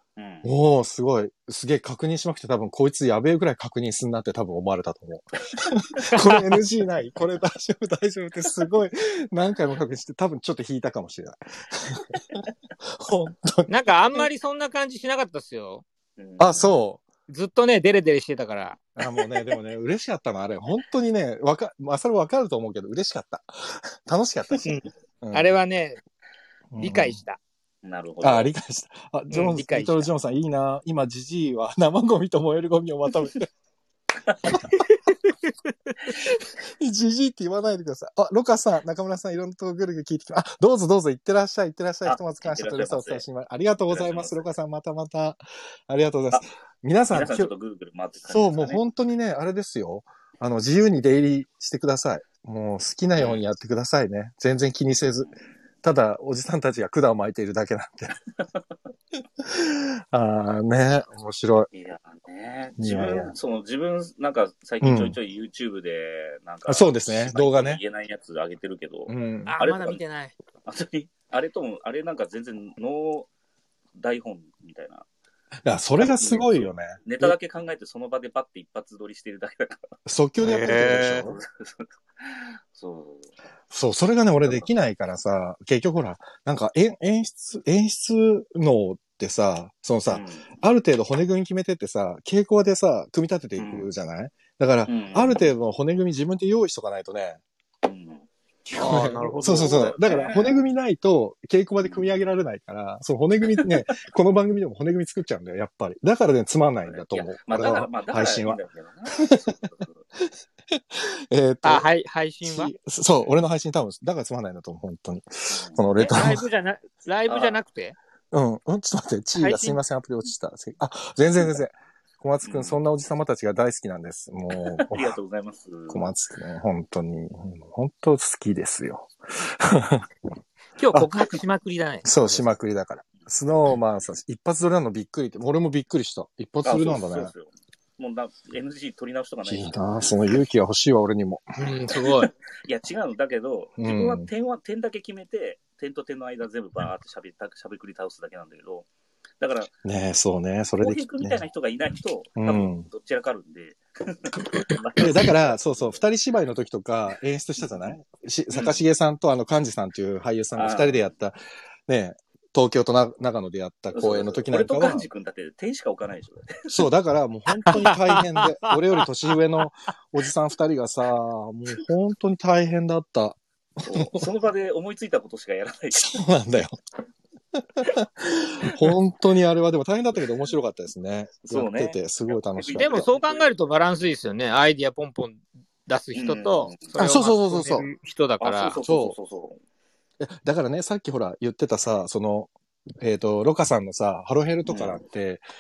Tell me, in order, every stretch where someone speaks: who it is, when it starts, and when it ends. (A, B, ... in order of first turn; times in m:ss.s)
0:00.2-0:00.5 A
0:00.4-0:14.2 B
0:06.1-0:06.4 C
0:13.7-0:15.8 C
0:16.2-0:16.8 A
0:16.4-0:17.0 B
0:17.3-0:18.8 C
0:19.0-0:24.7 B
0:24.7-0:26.0 C
0:25.2-0:25.6 B
0:26.7-0:27.2 B
0:26.8-0:27.4 C
0:27.8-0:28.5 A
0:28.2-0:33.5 B
0:29.3-0:30.1 C
0:34.7-0:35.5 C
0:36.6-0:47.5 B
0:42.0-0:43.2 A
0:43.9-0:44.5 A
0:47.1-0:48.8 A
0:48.3-0:55.3 B
0:53.2-0:53.4 A
0:55.8-0:58.1 B
0:59.4-1:01.7 B
1:01.7-1:10.0 A
1:02.8-1:03.3 B
1:04.8-1:05.2 B
1:06.7-1:07.8 B
1:09.1-1:09.6 B
1:09.5-1:10.3 C
1:10.7-1:13.3 A
1:14.0-1:15.1 A
1:15.6-1:17.3 B
1:16.0-1:19.9 A
1:20.1-1:21.4 B
1:20.4-1:21.2 C
1:20.7-1:23.3 A
1:23.7-1:37.4 B
1:30.1-1:30.6 A
1:33.6-1:33.9 A
1:34.9-1:35.4 A
1:37.8-1:38.3 A
1:38.7-1:48.6 B
1:38.8-1:39.9 C
1:39.3-1:40.6 A
1:41.8-1:42.1 A
1:46.9-1:50.0 A
1:49.2-1:49.5 B
1:50.7-1:51.9 B
1:51.6-1:52.7 C
1:52.4-1:56.4 B
1:55.5-1:55.8 A
1:56.0-1:58.0 C
1:57.3-1:57.6 A
1:58.3-2:05.2 B
1:59.4-1:59.8 C
2:02.4-2:02.8 A
2:04.6-2:06.2 A
2:05.9-2:10.1 B
2:10.8-2:12.4 C
2:12.0-2:17.3 B
2:16.6-2:20.2 A
2:19.4-2:21.5 B
2:21.6-2:22.3 C
2:22.6-2:28.9 A
2:23.8-2:24.3 B
2:29.4-2:29.7 A
2:29.8-2:31.4 B
2:30.8-2:36.0 A
2:32.4-2:32.9 B
2:35.0-2:45.1 B
2:37.6-2:37.9 A
2:38.5-2:38.8 A
2:40.5-2:41.1 A
2:43.9-2:46.8 A
2:46.7-2:54.3 B
2:47.7-2:48.7 C
2:53.8-2:56.2 A
2:55.9-2:56.8 B
2:57.6-3:03.1 B
3:01.5-3:03.5 A
3:02.8-3:08.8 C
3:06.2-3:07.0 A
3:07.0-3:07.9 B
3:08.4-3:09.6 A
3:08.8-3:09.2 B
3:10.2-3:15.4 B
3:14.6-3:15.0 A